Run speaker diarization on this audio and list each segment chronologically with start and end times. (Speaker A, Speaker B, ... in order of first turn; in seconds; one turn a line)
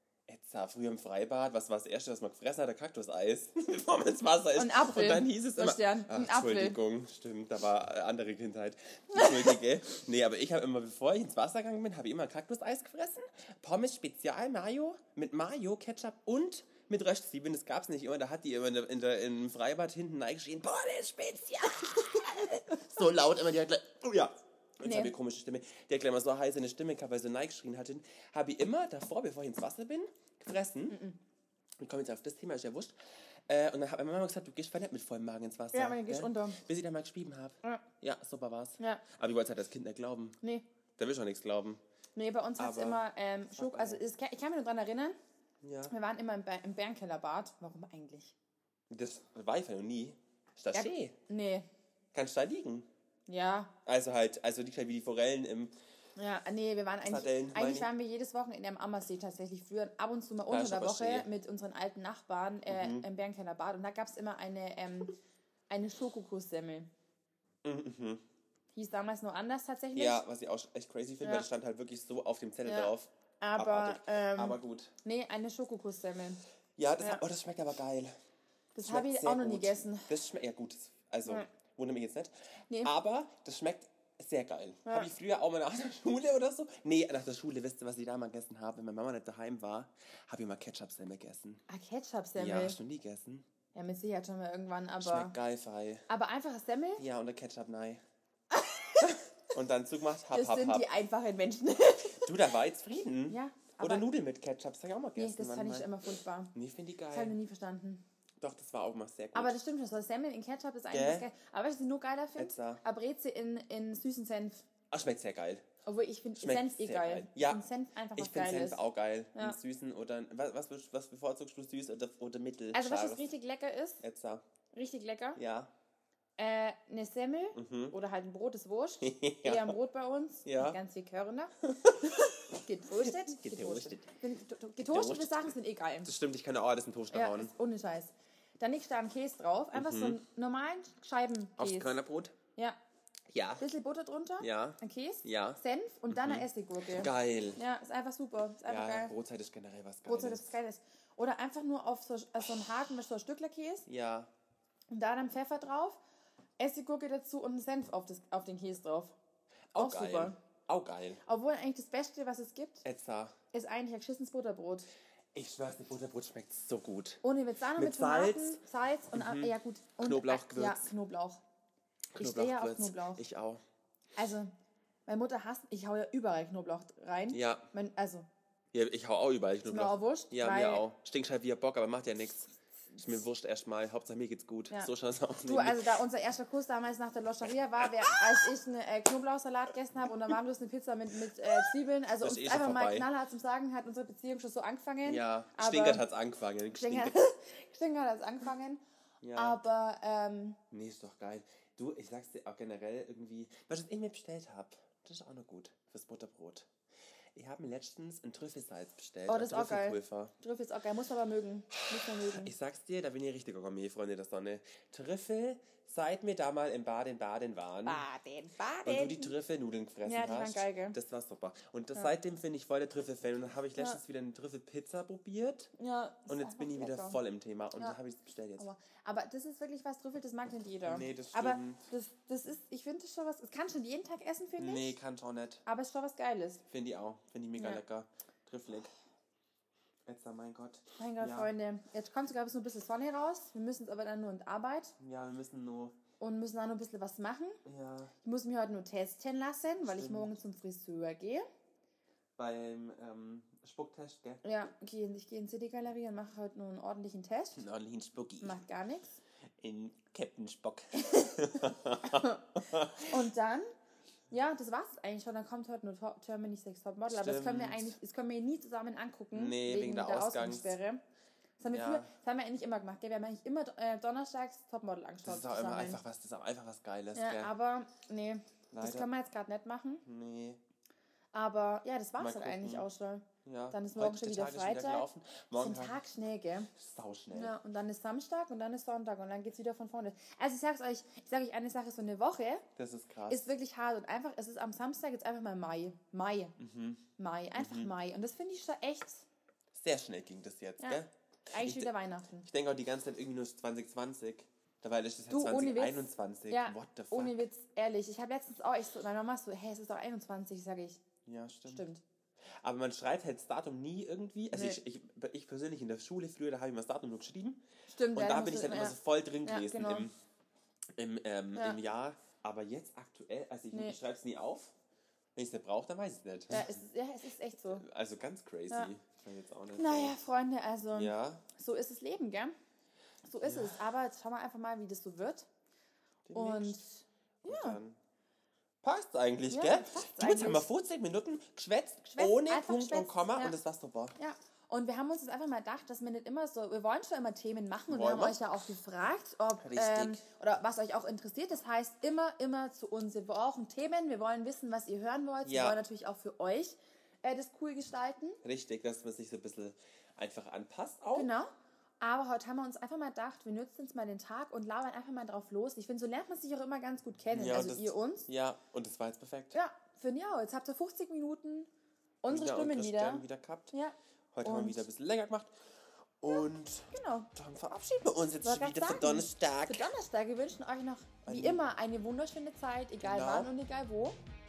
Speaker A: 0.3-31.0
Speaker B: 4.5-6.8
Speaker B: 9.1-9.5
Speaker B: 24.8-25.1
Speaker B: 30.9-31.1
Speaker A: 31.8-32.9
Speaker A: 33.5-40.4
Speaker B: 35.7-36.6
Speaker A: 41.0-41.8
Speaker B: 42.1-45.2
Speaker A: 42.6-44.0
Speaker A: 45.6-45.9
Speaker B: 45.9-48.3
Speaker A: 48.9-51.1
Speaker B: 50.7-51.7
Speaker A: 52.1-52.9
Speaker B: 53.3-53.7
Speaker A: 53.9-55.7
Speaker B: 56.2-65.1
Speaker A: 57.0-57.9
Speaker A: 60.5-61.3
Speaker A: 62.7-63.0
Speaker B: 65.7-66.9
Speaker A: 67.6-68.2
Speaker B: 68.7-70.2
Speaker A: 69.9-74.9
Speaker B: 71.2-71.5
Speaker B: 72.6-76.4
Speaker A: 76.8-78.2
Speaker B: 78.7-80.1
Speaker A: 78.8-82.3
Speaker A: 82.8-91.6
Speaker B: 84.8-85.1
Speaker B: 91.7-92.8
Speaker A: 92.4-93.5
Speaker B: 93.7-95.3
Speaker A: 95.0-96.0
Speaker B: 96.1-97.0
Speaker A: 97.0-98.0
Speaker B: 98.5-99.1
Speaker A: 99.0-100.9
Speaker B: 100.3-102.3
Speaker A: 102.2-105.9
Speaker B: 103.3-104.1
Speaker B: 105.2-106.5
Speaker A: 106.5-107.3
Speaker B: 107.1-108.0
Speaker A: 108.4-109.6
Speaker B: 109.3-114.7
Speaker A: 110.9-111.2
Speaker A: 112.4-112.8
Speaker A: 114.9-115.6
Speaker B: 115.8-118.8
Speaker A: 116.4-117.6
Speaker A: 118.2-123.3
Speaker B: 122.7-124.0
Speaker A: 124.0-124.4
Speaker B: 124.7-125.4
Speaker A: 125.3-125.7
Speaker B: 126.4-131.5
Speaker A: 127.5-127.9
Speaker A: 129.0-129.8
Speaker A: 130.4-130.8
Speaker A: 131.6-132.4
Speaker B: 132.1-136.1
Speaker A: 132.9-134.1
Speaker A: 134.8-135.5
Speaker A: 136.0-137.5
Speaker B: 137.1-141.9
Speaker A: 139.7-140.2
Speaker A: 141.6-142.3
Speaker A: 143.3-143.6
Speaker B: 143.6-149.1
Speaker A: 144.4-147.6
Speaker A: 148.7-150.6
Speaker B: 150.1-153.8
Speaker A: 153.9-154.3
Speaker B: 154.9-156.0
Speaker B: 156.6-159.1
Speaker A: 159.7-161.2
Speaker B: 159.8-160.3
Speaker B: 161.2-162.8
Speaker A: 162.8-163.3
Speaker B: 163.5-164.9
Speaker A: 165.3-167.2
Speaker B: 167.2-171.4
Speaker A: 167.7-168.6
Speaker A: 169.1-170.9
Speaker A: 172.1-173.6
Speaker B: 172.2-173.2
Speaker B: 174.2-174.5
Speaker B: 175.1-178.3
Speaker A: 177.3-177.6
Speaker A: 178.7-185.9
Speaker B: 179.6-180.8
Speaker B: 185.4-196.1
Speaker A: 187.8-188.4
Speaker A: 192.2-193.1
Speaker A: 195.0-197.2
Speaker B: 196.7-198.8
Speaker A: 199.2-199.6
Speaker B: 199.3-200.6
Speaker A: 200.7-206.7
Speaker A: 207.3-210.3
Speaker B: 209.3-212.5
Speaker A: 211.9-218.0
Speaker B: 217.8-219.3
Speaker A: 218.8-225.7
Speaker B: 220.0-221.0
Speaker B: 225.8-227.2
Speaker A: 226.3-228.7
Speaker B: 228.6-234.9
Speaker A: 230.8-231.8
Speaker A: 234.6-235.6
Speaker B: 235.7-236.6
Speaker A: 236.7-238.9
Speaker A: 240.1-241.5
Speaker B: 241.0-244.9
Speaker A: 245.0-245.9
Speaker B: 246.2-247.6
Speaker A: 247.6-248.1
Speaker B: 248.2-251.4
Speaker A: 249.9-250.3
Speaker A: 252.4-254.4
Speaker B: 254.4-257.6
Speaker A: 257.6-258.6
Speaker B: 258.4-259.2
Speaker A: 259.6-263.1
Speaker B: 260.9-262.4
Speaker B: 263.0-263.7
Speaker B: 264.3-271.0
Speaker A: 267.1-267.9
Speaker A: 269.3-270.7
Speaker B: 271.6-276.0
Speaker A: 271.7-272.1
Speaker A: 275.2-277.5
Speaker B: 277.1-280.0
Speaker A: 278.7-279.1
Speaker A: 280.0-280.6
Speaker B: 281.3-285.1
Speaker A: 282.2-282.9
Speaker A: 283.4-286.0
Speaker B: 285.6-286.7
Speaker A: 286.7-287.6
Speaker B: 287.3-292.6
Speaker A: 292.8-293.5
Speaker B: 293.3-296.6
Speaker A: 296.6-297.0
Speaker B: 297.2-299.3
Speaker A: 297.6-297.9
Speaker A: 299.7-301.9
Speaker B: 300.8-302.4
Speaker A: 302.4-307.3
Speaker B: 305.3-311.0
Speaker A: 311.2-311.8
Speaker B: 311.7-312.0
Speaker A: 312.6-317.6
Speaker B: 314.5-314.8
Speaker B: 317.9-320.1
Speaker A: 318.1-320.1
Speaker A: 321.0-324.7
Speaker B: 323.7-324.0
Speaker A: 325.4-326.8
Speaker B: 326.5-327.8
Speaker A: 327.7-330.1
Speaker B: 329.7-332.6
Speaker A: 330.9-331.4
Speaker B: 333.2-335.5
Speaker A: 333.4-333.8
Speaker A: 336.2-336.8
Speaker B: 336.3-337.8
Speaker A: 337.4-338.0
Speaker A: 338.8-344.1
Speaker B: 339.5-340.6
Speaker B: 342.1-343.6
Speaker B: 344.2-358.4
Speaker A: 347.9-348.4
Speaker A: 349.6-350.2
Speaker A: 355.4-355.8
Speaker A: 358.4-361.3
Speaker B: 361.1-368.3
Speaker A: 367.3-369.6
Speaker B: 369.5-371.7
Speaker B: 372.2-374.8
Speaker A: 372.2-373.7
Speaker A: 374.3-375.5
Speaker A: 376.2-379.9
Speaker B: 376.9-377.3
Speaker B: 378.4-384.2
Speaker A: 381.2-381.6
Speaker A: 383.0-383.5